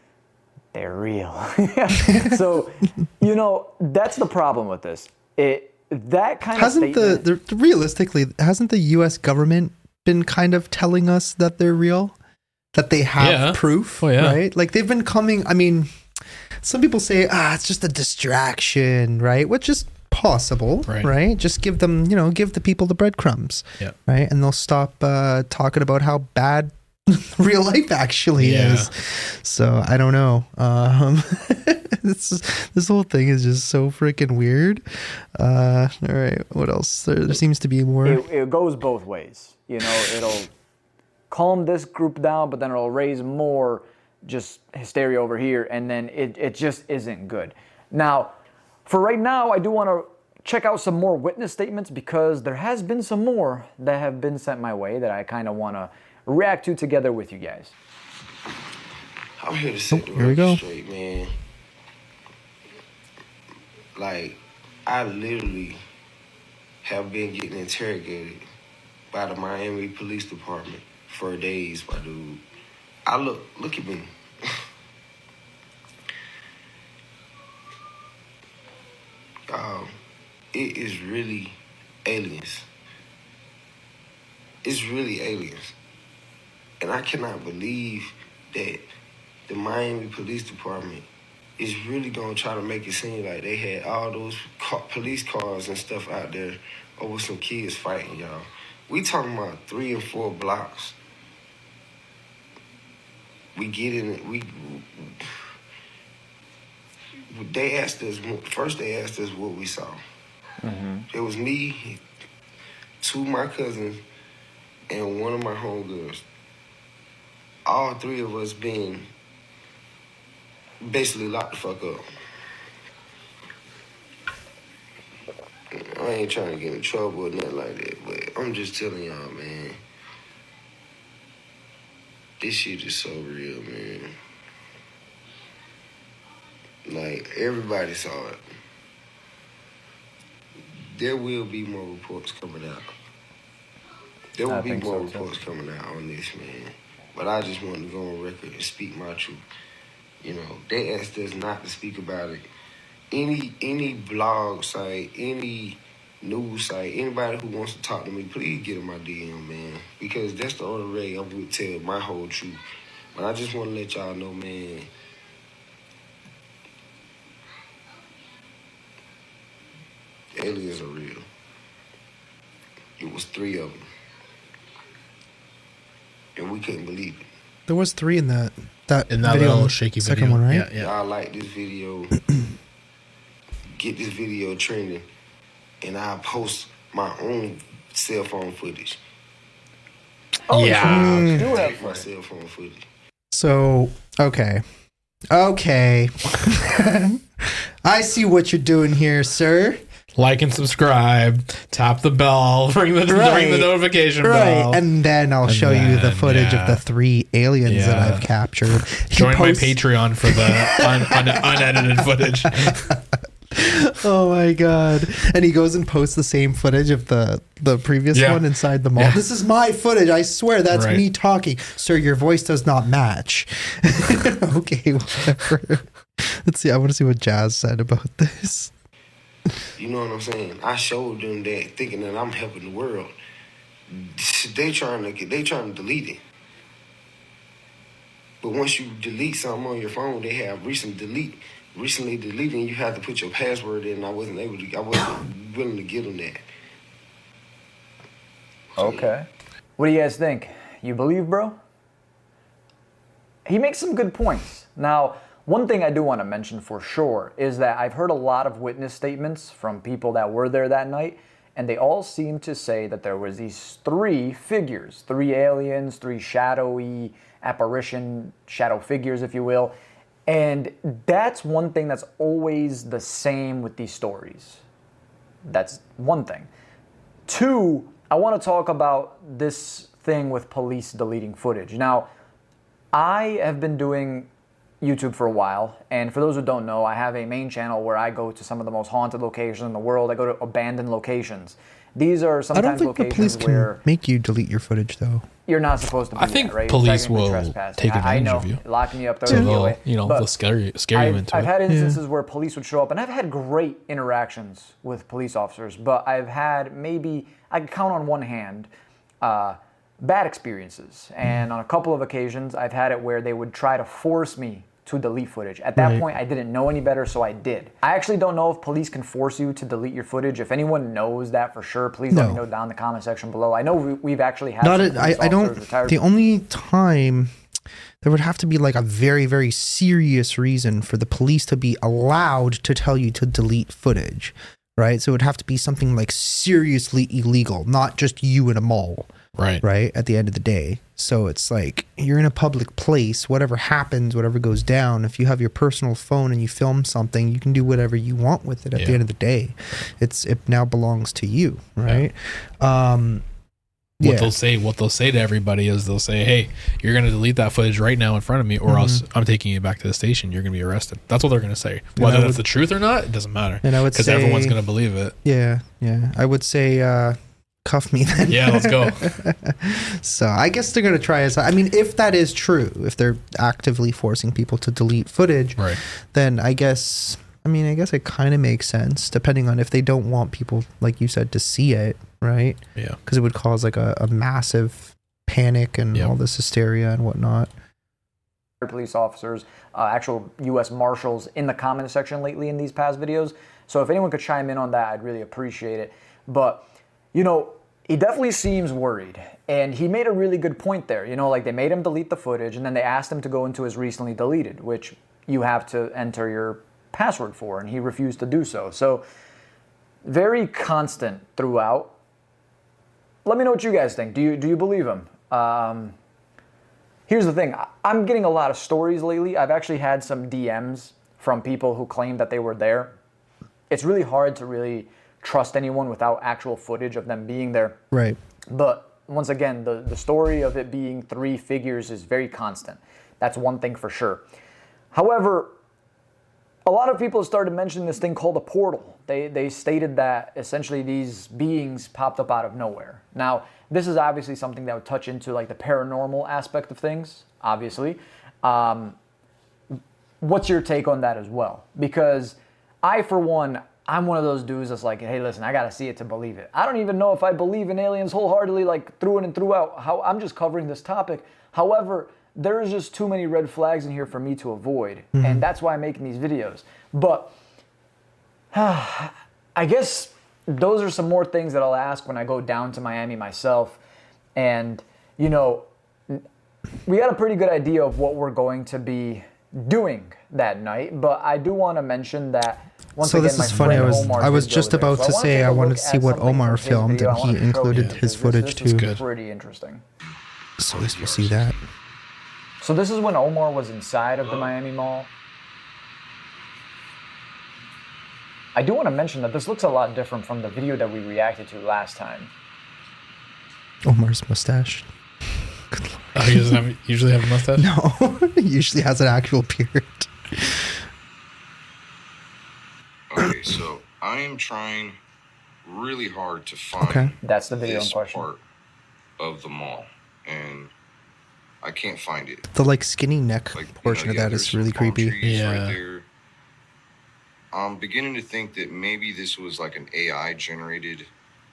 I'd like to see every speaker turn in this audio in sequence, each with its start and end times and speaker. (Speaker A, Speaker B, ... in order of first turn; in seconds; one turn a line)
Speaker A: 0.7-7.2
Speaker B: 2.0-2.4
Speaker B: 6.5-12.2
Speaker B: 12.7-15.9
Speaker C: 13.2-14.4
Speaker B: 16.6-38.2
Speaker C: 20.9-21.1
Speaker C: 28.4-28.9
Speaker A: 38.0-40.5
Speaker A: 41.3-48.3
Speaker A: 48.9-57.8
Speaker D: 59.4-61.3
Speaker B: 59.9-60.6
Speaker D: 64.0-65.8
Speaker D: 66.8-68.4
Speaker D: 69.1-72.4
Speaker D: 73.0-74.6
Speaker D: 79.5-80.0
Speaker D: 80.5-82.7
Speaker D: 84.6-85.7
Speaker D: 86.8-88.9
Speaker D: 89.5-91.1
Speaker D: 91.6-101.0
Speaker D: 103.5-105.4
Speaker D: 107.3-110.0
Speaker A: 110.6-111.1
Speaker D: 111.1-112.0
Speaker D: 113.0-114.0
Speaker D: 114.9-116.2
Speaker D: 117.7-119.1
Speaker D: 120.8-122.0
Speaker D: 125.7-129.8
Speaker D: 132.4-134.1
Speaker D: 136.9-138.4
Speaker D: 140.7-142.9
Speaker D: 144.4-149.4
Speaker A: 144.4-145.3
Speaker D: 150.2-152.5
Speaker D: 153.1-162.6
Speaker D: 163.1-164.9
Speaker D: 170.3-171.2
Speaker D: 173.0-173.8
Speaker D: 176.4-177.2
Speaker B: 177.7-180.7
Speaker C: 179.1-180.9
Speaker D: 180.7-182.2
Speaker D: 183.8-185.1
Speaker D: 185.8-189.0
Speaker A: 190.5-192.1
Speaker C: 190.5-191.3
Speaker B: 190.8-191.5
Speaker D: 190.9-192.8
Speaker B: 193.3-194.6
Speaker B: 195.3-199.8
Speaker C: 200.1-204.8
Speaker B: 203.1-228.7
Speaker C: 205.4-206.8
Speaker C: 207.7-212.9
Speaker C: 218.1-218.4
Speaker C: 220.7-221.0
Speaker D: 229.8-233.1
Speaker D: 233.9-236.2
Speaker D: 238.4-246.4
Speaker D: 248.8-249.1
Speaker A: 248.8-251.6
Speaker A: 253.4-269.7
Speaker A: 270.3-274.6
Speaker A: 275.5-276.5
Speaker A: 277.3-282.1
Speaker A: 282.9-284.3
Speaker A: 284.8-293.8
Speaker B: 292.5-295.2
Speaker A: 295.4-300.3
Speaker C: 296.1-298.6
Speaker C: 299.3-301.5
Speaker A: 300.9-308.7
Speaker B: 301.7-302.0
Speaker A: 309.2-326.0
Speaker B: 315.8-316.1
Speaker B: 322.1-322.4
Speaker B: 324.6-327.3
Speaker B: 328.0-353.2
Speaker C: 339.3-339.6
Speaker C: 348.8-349.0
Speaker B: 354.0-354.3
Speaker C: 354.0-365.1
Speaker B: 358.6-359.0
Speaker B: 361.9-362.4
Speaker B: 363.6-364.6
Speaker B: 365.2-387.5
Speaker C: 368.3-369.1
Speaker A: 388.6-409.0
Speaker A: 410.0-411.9
Speaker A: 413.2-415.9
Speaker A: 417.1-422.9
Speaker A: 423.7-427.8
Speaker B: 427.9-428.2
Speaker A: 428.5-434.2
Speaker A: 434.9-435.5
Speaker A: 436.6-449.0
Speaker A: 450.2-467.3
Speaker B: 465.1-465.4
Speaker A: 468.5-473.8
Speaker A: 474.4-476.2
Speaker A: 476.9-489.8
Speaker B: 483.0-488.9
Speaker C: 483.5-484.1
Speaker C: 487.7-488.0
Speaker C: 488.7-489.0
Speaker B: 490.6-491.6
Speaker E: 490.6-491.7
Speaker A: 492.6-495.1
Speaker E: 494.2-494.5
Speaker A: 498.6-502.3
Speaker B: 503.9-504.9
Speaker B: 505.7-506.6
Speaker C: 506.1-507.7
Speaker B: 507.6-510.8
Speaker E: 513.1-515.0
Speaker B: 513.2-513.6
Speaker E: 515.6-518.4
Speaker B: 516.8-517.1
Speaker A: 517.2-518.2
Speaker E: 519.2-520.7
Speaker E: 521.6-522.4
Speaker B: 522.5-525.2
Speaker E: 523.5-526.1
Speaker C: 525.2-525.8
Speaker E: 527.5-531.1